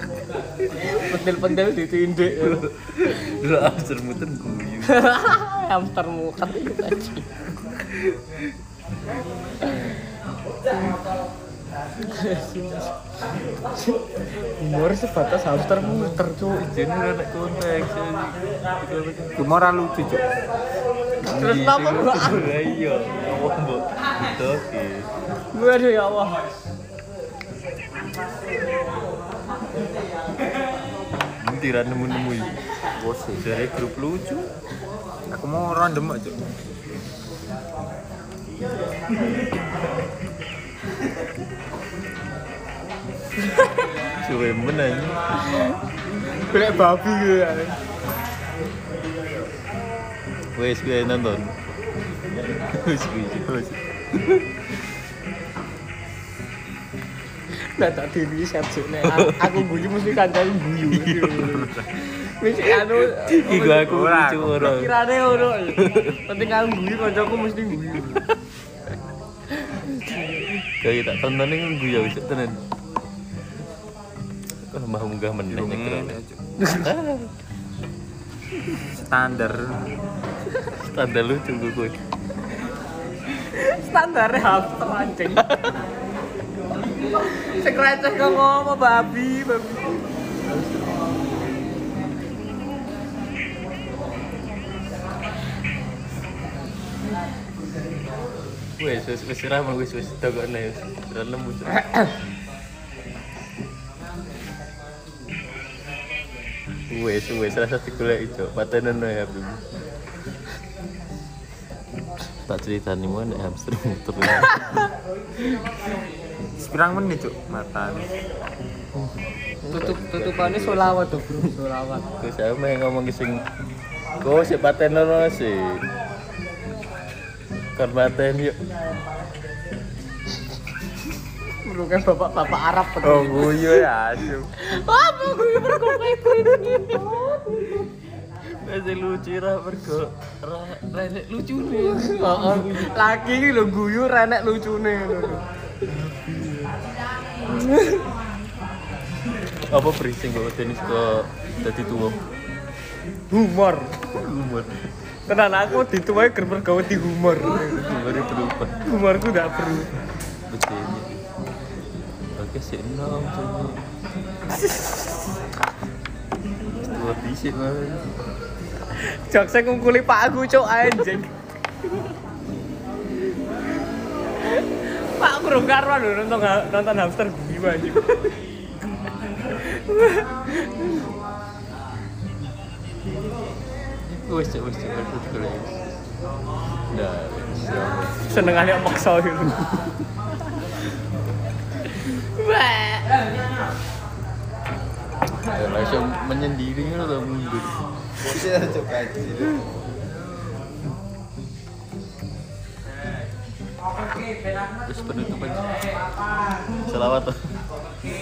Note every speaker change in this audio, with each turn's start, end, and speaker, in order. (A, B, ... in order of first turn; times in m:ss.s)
0:00.7-0:02.6 A
0:02.4-0:05.1 B
0:04.8-0:07.3 A
0:07.7-0:08.5 B
0:12.0-0:12.9 A
0:14.6-0:16.7 A
0:15.8-0:19.4 B
0:19.4-0:20.3 C
0:21.2-0:22.5 A
0:21.3-0:25.1 B
0:25.5-0:26.5 A
0:31.4-0:32.5 B
0:32.9-0:33.4 C
0:33.4-0:34.5 B
0:35.3-0:36.4 C
0:43.4-0:43.9 A
0:44.2-0:45.2 B
0:45.5-0:45.8 A
0:46.3-0:47.8 A
0:50.6-0:51.6 B
0:52.7-0:54.5 B
0:57.8-1:04.0 A
0:59.0-1:00.0 B
1:00.9-1:01.9 B
1:02.6-1:06.2 B
1:03.7-1:04.8 C
1:04.6-1:08.2 A
1:09.6-1:10.3 A
1:10.4-1:12.6 B
1:14.7-1:17.3 B
1:15.5-1:16.5 C
1:16.6-1:16.9 A
1:18.8-1:19.9 C
1:20.7-1:22.0 B
1:23.4-1:25.8 A
1:25.4-1:25.8 B
1:27.1-1:30.0 A
1:30.4-1:31.0 B
1:38.8-1:41.9 B
1:46.9-1:49.6 B
1:52.5-1:54.8 B
1:56.6-1:58.1 C
1:59.6-2:01.5 B
1:59.7-2:02.1 A
2:02.2-2:03.4 B
2:04.2-2:05.8 B
2:07.8-2:08.6 B
2:11.6-2:13.9 A
2:13.0-2:14.5 C
2:14.6-2:17.9 A
2:18.6-2:22.9 B
2:21.8-2:25.4 A
2:25.9-2:26.8 B
2:27.5-2:28.0 A
2:29.7-2:32.2 B
2:33.3-2:34.0 A
2:34.1-2:34.7 B
2:35.3-2:37.9 A
2:37.4-2:38.8 B
2:38.8-2:39.9 A
2:40.5-2:41.2 B
2:42.4-2:43.8 B
2:44.6-2:45.0 B
2:46.8-2:48.1 B
2:49.0-2:51.3 A
2:54.4-2:58.1 A
2:59.7-3:01.1 A
3:04.0-3:05.8 B
3:06.9-3:08.5 B
3:08.2-3:09.6 A
3:12.0-3:13.0 B
3:12.5-3:13.0 A
3:15.5-3:17.8 B
3:18.2-3:19.7 C
3:24.8-3:25.9 B
3:26.9-3:27.4 B